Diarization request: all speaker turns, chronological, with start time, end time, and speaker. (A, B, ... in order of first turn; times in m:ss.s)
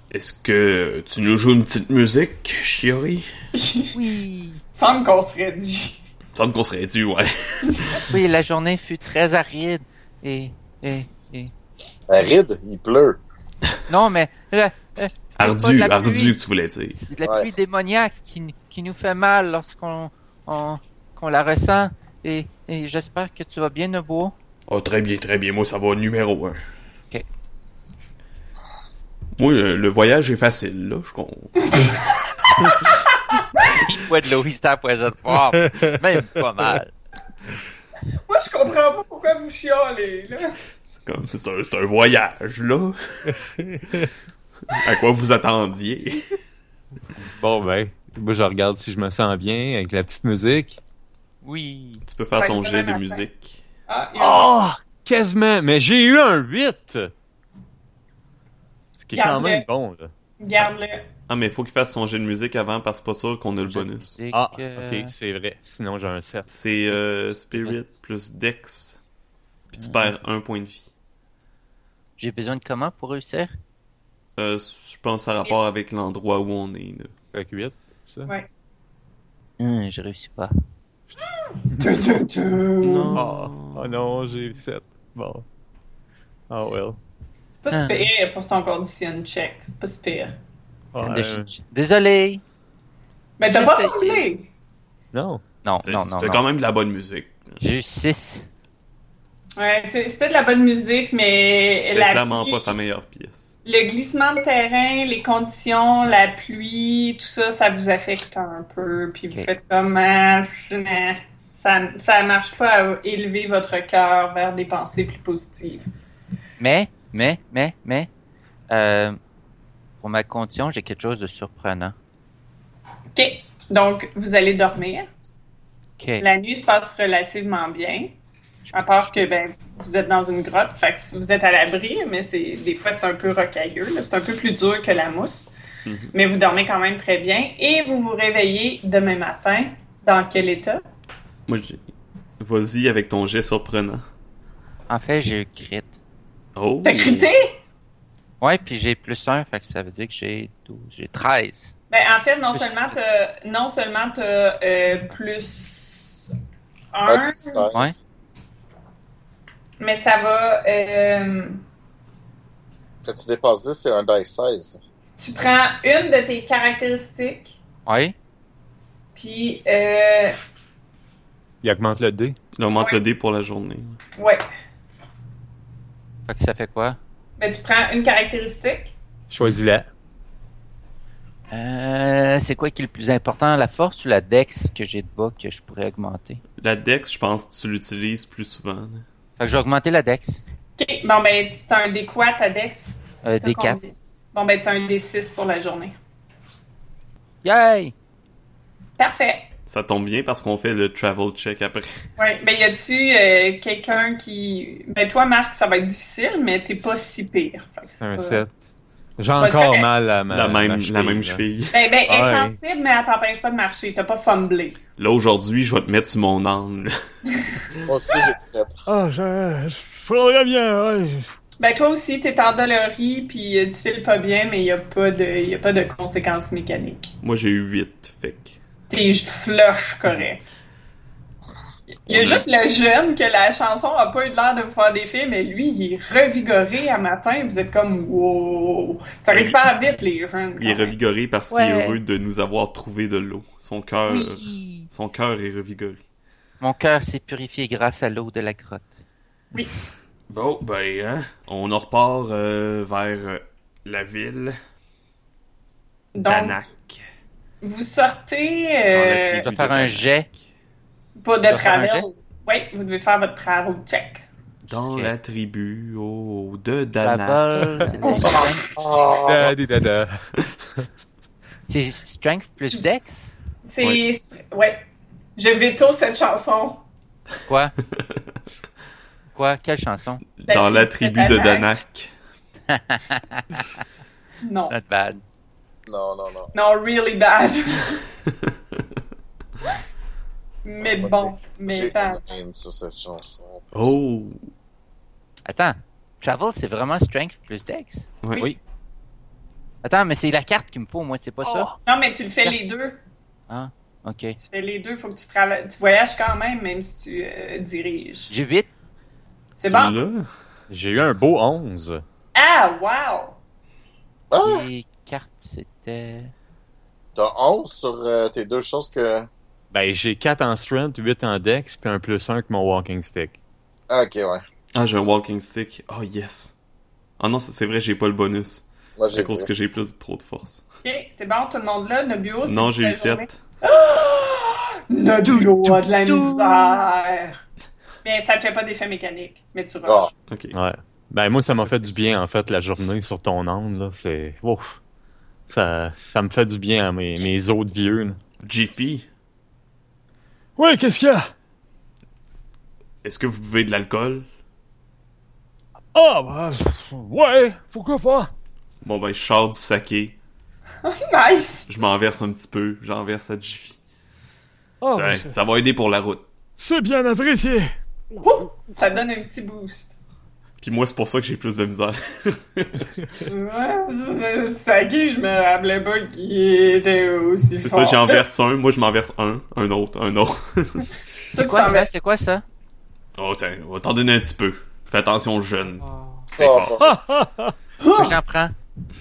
0:00.1-0:03.3 A
0:03.5-0:03.9 B
0:03.9-0:04.6 C
0:04.7-0:06.0 B
0:06.3-0:08.0 A
0:07.7-0:08.0 B
0:08.1-0:11.5 C
0:12.1-0:13.2 D
0:13.9-0:16.4 C
0:15.4-0:17.0 A
0:17.0-0:24.3 C
0:17.2-0:17.5 D
0:24.7-0:26.6 A
0:29.4-0:31.9 A
0:31.7-0:32.9 B
0:33.7-0:36.9 C
0:35.5-0:35.9 E
0:38.3-0:40.5 B
0:41.0-0:43.4 A
0:43.3-0:44.1 E
0:44.7-0:46.2 A
0:47.2-0:50.8 E
0:51.4-0:52.0 C
0:52.1-0:53.6 A
0:52.4-0:53.2 B
0:53.9-0:54.5 B
0:54.1-0:57.1 E
0:59.0-1:00.1 E
0:59.1-0:59.6 B
1:00.4-1:01.1 B
1:01.3-1:04.2 A
1:03.6-1:05.1 C
1:04.3-1:07.7 E
1:06.5-1:09.0 A
1:09.7-1:10.9 A
1:09.8-1:10.1 C
1:12.2-1:13.5 C
1:14.4-1:17.1 A
1:17.3-1:18.3 E
1:19.6-1:20.5 C
1:21.8-1:23.2 B
1:22.8-1:24.0 A
1:23.1-1:25.4 E
1:26.5-1:27.0 E
1:27.6-1:30.3 B
1:27.7-1:28.1 C
1:30.9-1:31.5 E
1:31.0-1:32.4 C
1:33.4-1:34.5 B
1:33.5-1:34.3 C
1:35.1-1:35.4 E
1:35.6-1:36.4 C
1:35.8-1:37.6 A
1:37.6-1:38.4 C
1:39.6-1:42.7 B
1:41.8-1:43.5 A
1:43.6-1:55.9 B
1:56.6-1:58.1 C
1:58.7-1:59.2 C
2:00.0-2:01.9 C
2:03.1-2:05.1 B
2:06.0-2:06.2 C
2:06.2-2:08.1 B
2:08.7-2:09.1 C
2:08.7-2:15.5 B
2:15.8-2:16.1 A
2:16.1-2:20.8 B
2:21.5-2:21.8 A
2:22.4-2:24.0 A
2:24.9-2:26.0 C
2:26.6-2:27.3 A
2:26.8-2:27.5 B
2:28.4-2:31.7 C
2:31.9-2:36.1 B
2:32.5-2:33.0 C
2:36.9-2:37.6 B
2:37.0-2:38.0 D
2:39.8-2:41.6 B
2:43.0-2:44.8 D
2:45.2-2:47.5 B
2:47.8-2:48.1 C
2:49.1-2:50.4 B
2:51.6-2:52.4 E
2:52.6-2:54.0 A
2:52.7-2:53.0 B
2:54.2-2:54.4 B
2:56.3-2:57.0 C
2:57.4-2:58.9 B
2:59.3-2:59.9 E
3:01.5-3:06.4 C
3:06.6-3:09.0 A
3:09.4-3:10.4 C
3:10.8-3:16.0 B
3:13.2-3:13.8 C
3:17.4-3:17.9 C
3:19.0-3:19.4 B
3:19.7-3:21.9 A
3:22.2-3:28.4 B
3:28.0-3:28.6 E
3:29.2-3:31.4 E
3:29.4-3:29.9 B
3:30.3-3:31.8 A
3:31.7-3:34.8 B
3:32.1-3:32.6 E
3:35.0-3:37.0 A
3:37.8-3:38.7 D
3:38.9-3:41.2 F
3:41.6-3:47.1 B
3:47.2-3:48.6 A
3:48.9-3:50.4 B
3:51.9-4:00.9 B
3:52.1-3:52.4 A
3:59.3-3:59.6 A
4:00.6-4:06.0 A
4:01.5-4:02.0 C
4:04.1-4:04.9 C
4:06.6-4:08.9 C
4:10.3-4:14.6 A
4:16.1-4:16.6 B
4:16.2-4:17.0 A
4:17.6-4:19.5 B
4:18.9-4:20.3 A
4:19.4-4:20.3 C
4:21.2-4:24.2 B
4:21.4-4:22.1 C
4:24.7-4:27.6 A
4:24.8-4:25.1 C
4:27.0-4:28.7 C
4:28.1-4:29.6 D
4:29.2-4:30.3 E
4:31.7-4:33.3 C
4:33.6-4:34.8 B
4:35.4-4:36.8 B
4:37.5-4:37.7 C
4:39.3-4:40.2 C
4:40.4-4:42.1 A
4:40.5-4:41.8 B
4:42.7-4:43.8 C
4:44.4-4:44.7 B
4:44.7-4:45.2 C
4:45.9-4:46.5 D
4:46.5-4:48.0 B
4:50.6-4:52.2 B
4:50.8-4:54.0 D
4:53.7-4:54.4 A
4:55.4-4:58.6 C
4:59.8-5:01.7 C
5:01.8-5:03.0 B
5:03.5-5:04.4 C
5:04.4-5:08.3 B
5:08.3-5:08.7 C
5:09.6-5:10.0 B
5:09.6-5:10.3 A
5:10.7-5:12.0 E
5:12.3-5:13.4 B
5:14.3-5:14.7 D
5:14.4-5:16.3 C
5:17.2-5:19.3 D
5:19.7-5:23.4 E
5:23.9-5:24.4 D
5:24.7-5:26.5 A
5:27.2-5:30.6 A
5:29.0-5:29.7 D
5:30.8-5:37.4 B
5:32.4-5:33.3 A
5:35.2-5:36.8 C
5:38.0-5:40.1 B
5:39.8-5:40.1 D
5:40.3-5:40.5 A
5:40.5-5:44.8 E
5:45.5-5:48.2 E
5:48.4-5:49.1 A
5:50.6-5:51.2 F
5:53.0-5:54.2 A
5:55.9-5:58.3 F
5:58.8-6:00.2 A
6:00.8-6:01.7 B
6:01.7-6:03.8 A
6:04.8-6:05.3 F
6:05.0-6:06.2 A
6:06.6-6:07.7 F
6:08.2-6:09.9 B
6:10.6-6:13.0 A
6:13.2-6:18.2 B
6:17.6-6:20.9 A
6:21.3-6:21.9 B
6:21.3-6:22.4 C
6:23.2-6:26.9 A
6:25.8-6:26.2 C
6:26.4-6:26.9 D
6:26.8-6:27.5 F
6:27.8-6:28.2 B
6:27.9-6:28.5 C